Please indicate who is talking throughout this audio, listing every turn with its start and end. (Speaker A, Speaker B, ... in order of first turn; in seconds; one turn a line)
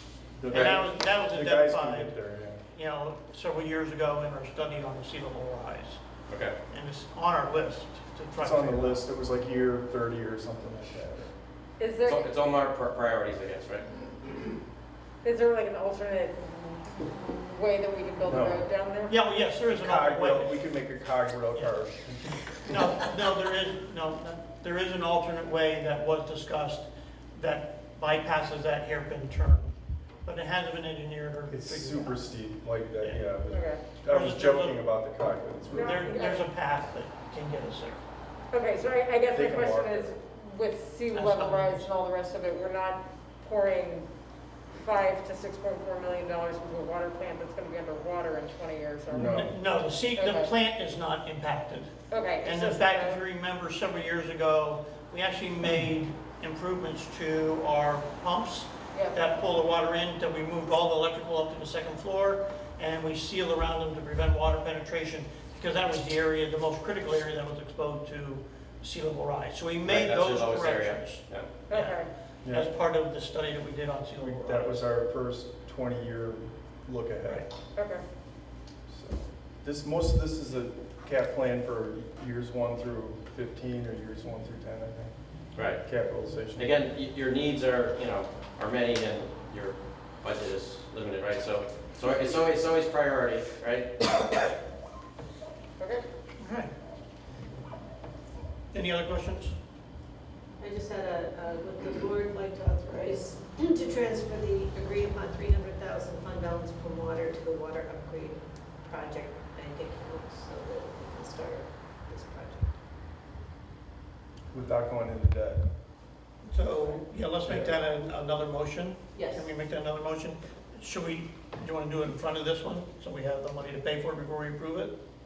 Speaker A: 0.4-2.6
Speaker B: 0.5-2.2
Speaker B: 2.7-6.0
Speaker C: 6.3-6.5
Speaker B: 6.7-9.0
Speaker A: 8.4-11.3
Speaker D: 11.8-12.3
Speaker C: 12.1-13.9
Speaker D: 15.2-19.2
Speaker A: 18.2-18.6
Speaker B: 19.1-20.7
Speaker A: 19.8-22.9
Speaker B: 22.6-32.3
Speaker A: 31.5-36.2
Speaker B: 33.0-33.3
Speaker D: 33.5-33.8
Speaker B: 34.0-35.1
Speaker D: 35.7-36.5
Speaker B: 35.7-38.0
Speaker D: 38.5-44.1
Speaker A: 39.3-40.1
Speaker B: 41.1-41.9
Speaker D: 44.8-49.4
Speaker A: 49.1-49.5
Speaker B: 49.2-74.8
Speaker D: 50.1-50.5
Speaker D: 52.1-53.2
Speaker D: 58.9-59.2
Speaker C: 69.9-71.5
Speaker D: 71.7-72.1
Speaker A: 72.4-72.7
Speaker A: 74.2-77.5
Speaker D: 77.8-78.0
Speaker A: 78.9-86.8
Speaker C: 85.5-86.0
Speaker C: 86.5-94.1
Speaker D: 95.8-96.0
Speaker B: 96.4-96.7
Speaker B: 98.7-99.5
Speaker E: 100.6-112.8
Speaker A: 114.5-115.7
Speaker B: 116.4-125.0
Speaker A: 117.4-117.8
Speaker E: 119.2-119.5